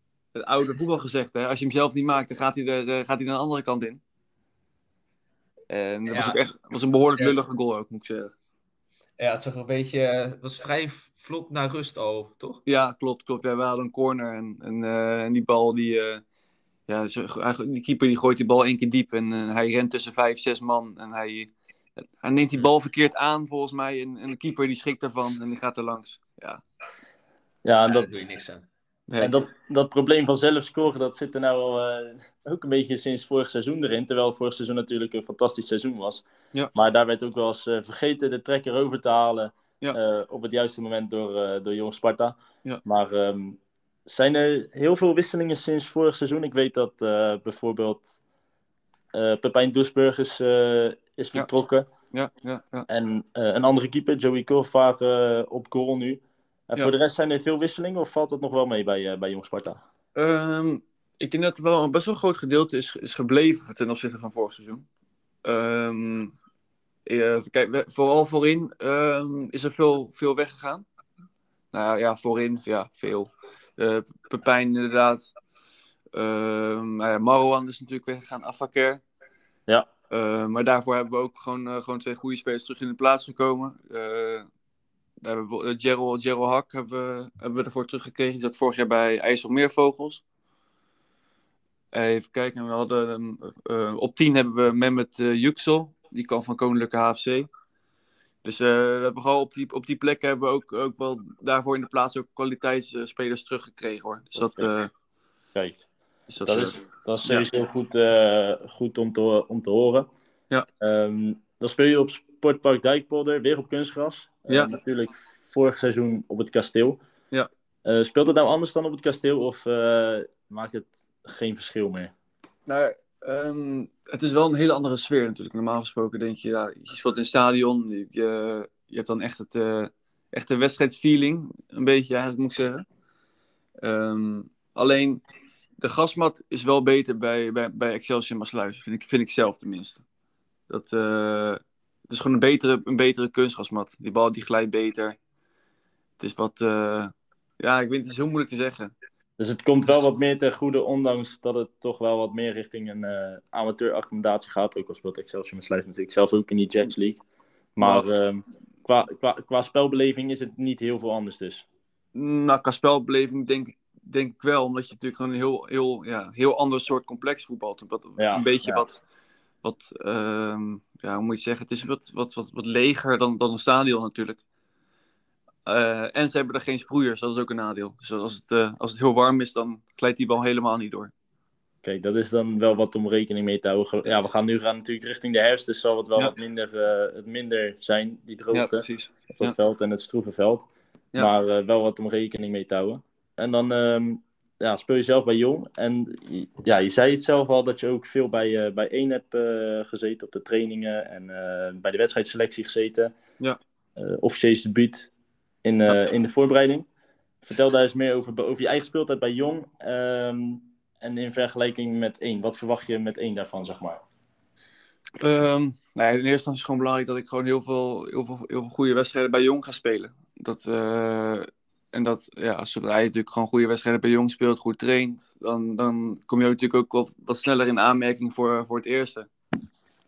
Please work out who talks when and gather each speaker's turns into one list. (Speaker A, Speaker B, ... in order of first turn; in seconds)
Speaker A: 0.3-4.0, 5.7-8.3, 12.7-16.2, 16.9-21.5, 22.2-26.6, 29.1-29.3, 52.1-52.9, 60.2-64.8, 65.5-66.3, 67.1-70.8, 71.7-75.4, 76.1-79.0, 80.1-84.5, 85.2-90.2, 91.9-97.5, 98.4-104.9, 106.3-107.5, 122.7-132.8, 133.8-135.2, 135.8-140.0, 140.7-145.2, 146.2-148.9, 162.1-169.0, 169.6-174.4, 175.7-181.1, 188.5-189.6, 215.2-229.3
Speaker B: 6.1-6.4, 9.2-12.6, 27.9-28.6
Speaker C: 27.6-28.1, 29.2-36.2, 36.8-48.1, 49.1-51.9, 52.9-59.8, 104.4-104.7, 105.5-105.8, 106.4-110.1, 110.8-117.0, 117.8-122.1, 149.4-157.2, 157.8-161.7, 168.2-168.8, 181.8-190.7, 191.2-203.1, 204.0-205.1, 205.6-206.9, 207.4-214.0